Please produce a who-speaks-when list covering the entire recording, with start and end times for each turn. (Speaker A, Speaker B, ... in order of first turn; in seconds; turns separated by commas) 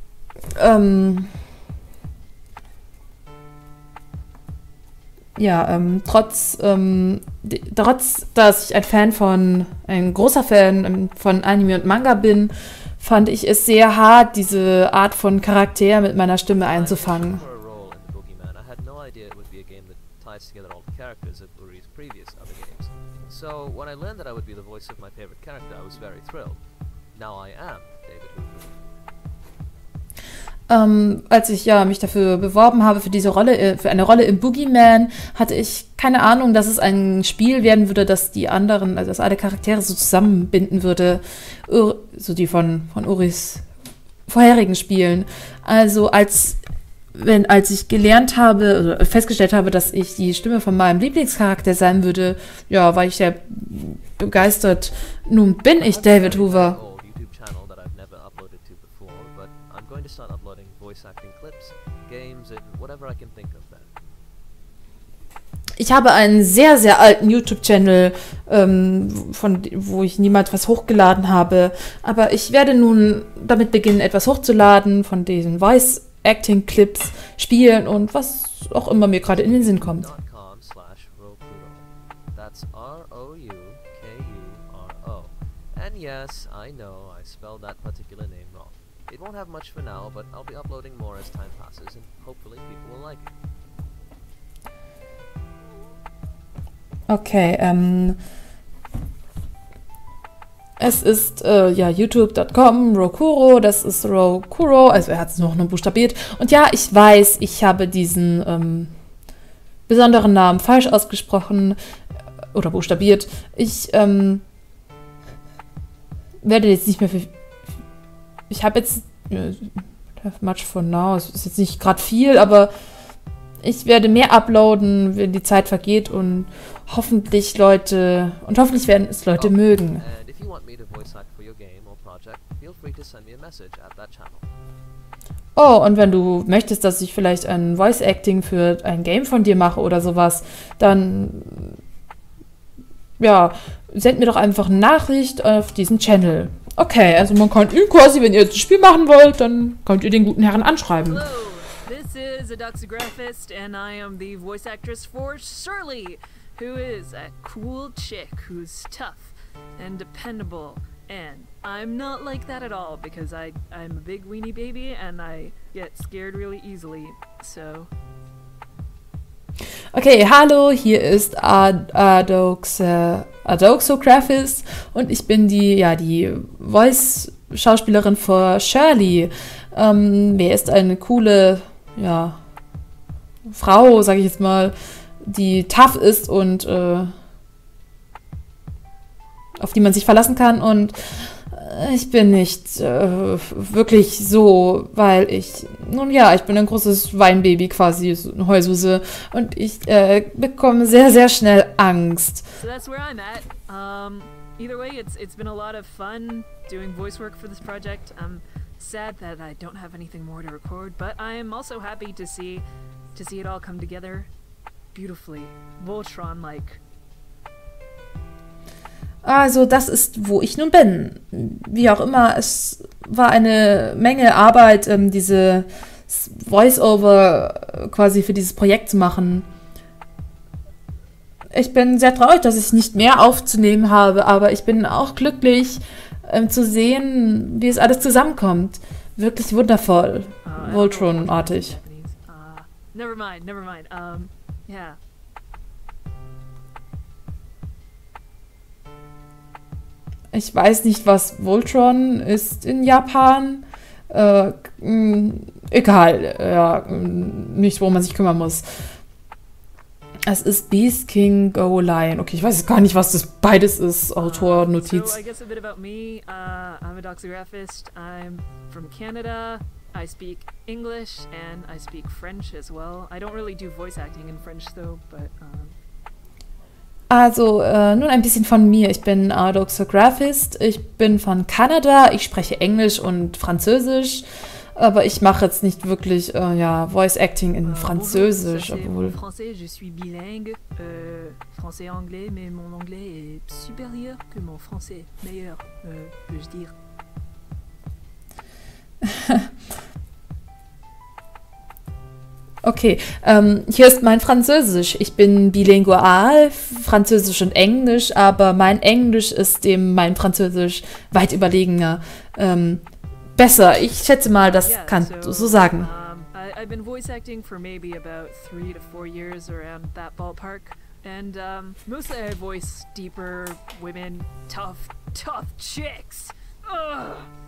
Speaker A: 0.5-1.3, Speaker A: 5.3-17.4, Speaker B: 16.5-28.8, Speaker A: 30.7-43.6, Speaker A: 44.3-46.6, Speaker A: 47.1-56.8, Speaker B: 55.8-63.9, Speaker A: 65.8-80.1, Speaker B: 78.8-93.3, Speaker A: 97.1-98.2, Speaker A: 100.8-108.9, Speaker A: 109.9-111.8, Speaker A: 112.5-114.4, Speaker A: 116.4-117.3, Speaker A: 118.5-119.7, Speaker A: 120.2-122.7, Speaker A: 123.6-130.0, Speaker B: 129.3-134.5, Speaker A: 135.6-141.7, Speaker A: 143.2-151.2, Speaker C: 151.0-167.9, Speaker A: 169.9-182.4, Speaker A: 183.5-187.1, Speaker A: 189.6-191.0, Speaker A: 191.5-202.4, Speaker C: 202.6-214.3, Speaker C: 214.9-216.8, Speaker A: 219.2-229.4, Speaker A: 231.5-241.8, Speaker C: 240.4-245.0, Speaker A: 250.3-258.6, Speaker A: 260.3-265.2, Speaker C: 264.2-275.7, Speaker A: 277.1-289.2, Speaker C: 287.6-296.7, Speaker A: 299.0-299.4, Speaker A: 302.6-312.8, Speaker A: 313.4-315.9, Speaker C: 314.4-327.3